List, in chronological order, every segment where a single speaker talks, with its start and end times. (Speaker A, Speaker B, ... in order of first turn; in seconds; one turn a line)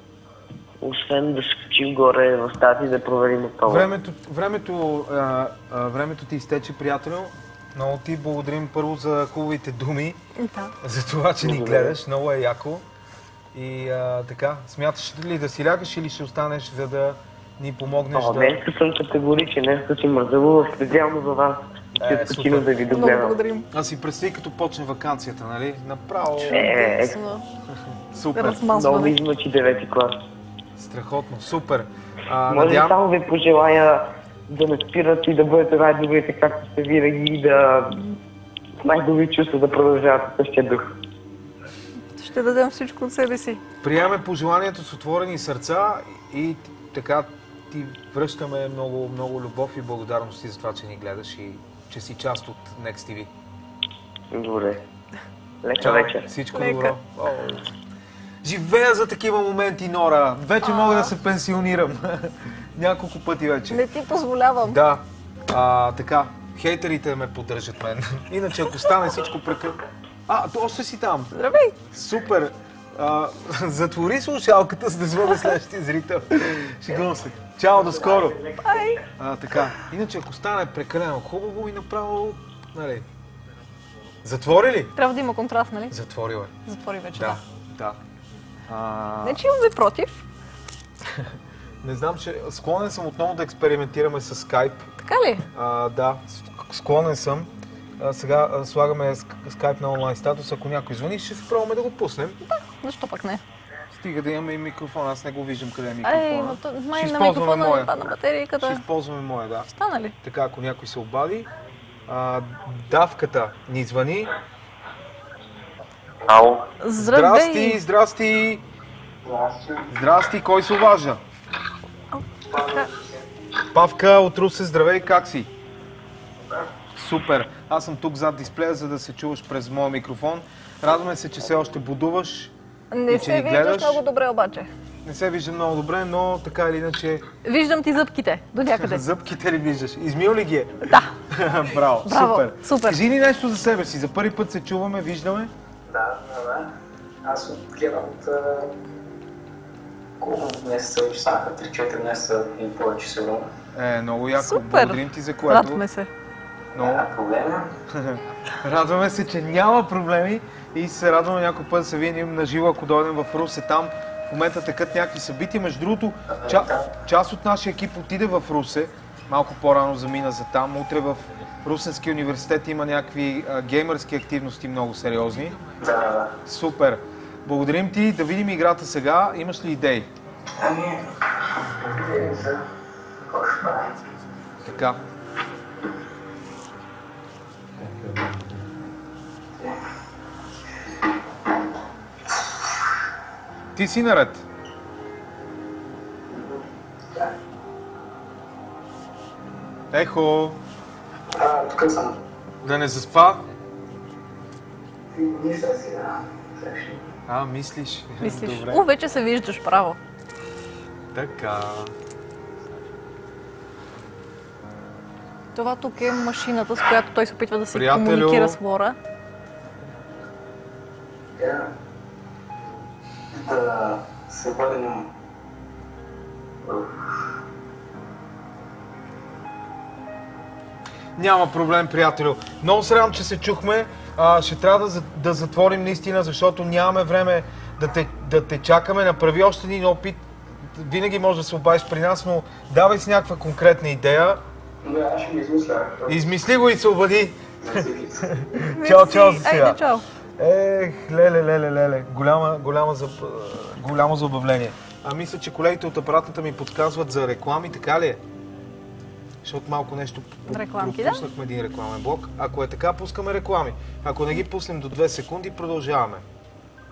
Speaker A: 0.8-3.9
Speaker B: 3.6-10.2
Speaker C: 10.4-10.7
Speaker B: 10.8-12.8
Speaker A: 11.4-11.9
Speaker B: 13.5-18.6
Speaker A: 18.1-23.4
Speaker B: 22.0-22.8
Speaker C: 22.9-23.7
Speaker B: 23.7-26.7
Speaker C: 26.2-27.4
Speaker A: 26.5-27.2
Speaker B: 27.9-28.6
Speaker C: 28.4-29.2
Speaker A: 28.7-30.2
Speaker B: 30.8-33.0
Speaker A: 32.5-38.0
Speaker A: 38.8-40.9
Speaker C: 42.1-43.6
Speaker B: 43.8-53.3
Speaker A: 54.3-54.8
Speaker A: 55.6-56.3
Speaker B: 55.8-57.8
Speaker C: 56.5-57.0
Speaker B: 58.4-63.8
Speaker C: 60.6-61.1
Speaker C: 63.7-64.8
Speaker B: 64.7-71.3
Speaker C: 71.3-71.8
Speaker B: 71.9-78.5
Speaker C: 78.6-79.0
Speaker B: 79.1-83.1
Speaker B: 84.2-84.9
Speaker C: 85.0-86.0
Speaker B: 85.9-86.5
Speaker C: 86.7-87.4
Speaker B: 87.1-88.0
Speaker B: 88.7-89.4
Speaker C: 89.2-90.3
Speaker B: 91.1-91.3
Speaker B: 91.8-94.9
Speaker C: 95.0-95.5
Speaker B: 95.5-102.4
Speaker C: 102.4-103.4
Speaker B: 103.9-108.0
Speaker C: 106.0-108.8
Speaker B: 108.6-109.7
Speaker C: 109.7-110.2
Speaker B: 110.2-111.5
Speaker B: 112.1-114.3
Speaker A: 116.3-116.7
Speaker C: 116.8-117.8
Speaker B: 117.0-118.7
Speaker D: 119.2-119.9
Speaker B: 119.9-121.2
Speaker C: 122.1-122.9
Speaker D: 122.5-123.2
Speaker B: 123.7-125.5
Speaker B: 127.0-132.5
Speaker C: 132.9-134.7
Speaker B: 133.1-134.0
Speaker B: 135.1-137.2
Speaker C: 137.4-139.1
Speaker B: 138.7-145.5
Speaker C: 140.9-141.2
Speaker C: 142.0-143.0
Speaker D: 145.9-146.7
Speaker D: 147.2-148.7
Speaker D: 150.2-153.5
Speaker B: 153.7-155.8
Speaker C: 154.3-156.1
Speaker B: 156.8-157.0
Speaker D: 156.8-157.7
Speaker B: 157.9-175.6
Speaker D: 166.3-166.9
Speaker D: 175.8-176.3
Speaker B: 176.4-180.1
Speaker D: 180.6-182.7
Speaker D: 183.3-184.0
Speaker B: 184.6-185.0
Speaker B: 193.8-194.4
Speaker D: 196.3-196.6
Speaker B: 199.9-200.6
Speaker D: 201.3-202.2
Speaker B: 202.6-203.4
Speaker D: 205.1-207.1
Speaker B: 207.3-208.8
Speaker C: 208.2-210.0
Speaker B: 211.1-211.9
Speaker C: 215.6-219.0
Speaker B: 217.7-218.6
Speaker D: 221.4-221.7
Speaker D: 223.3-225.1
Speaker D: 226.6-227.1
Speaker B: 231.2-244.4
Speaker D: 244.8-246.1
Speaker B: 246.1-249.8
Speaker D: 247.7-248.3
Speaker C: 248.5-250.1
Speaker B: 250.4-258.2
Speaker B: 259.4-266.2
Speaker C: 260.5-261.3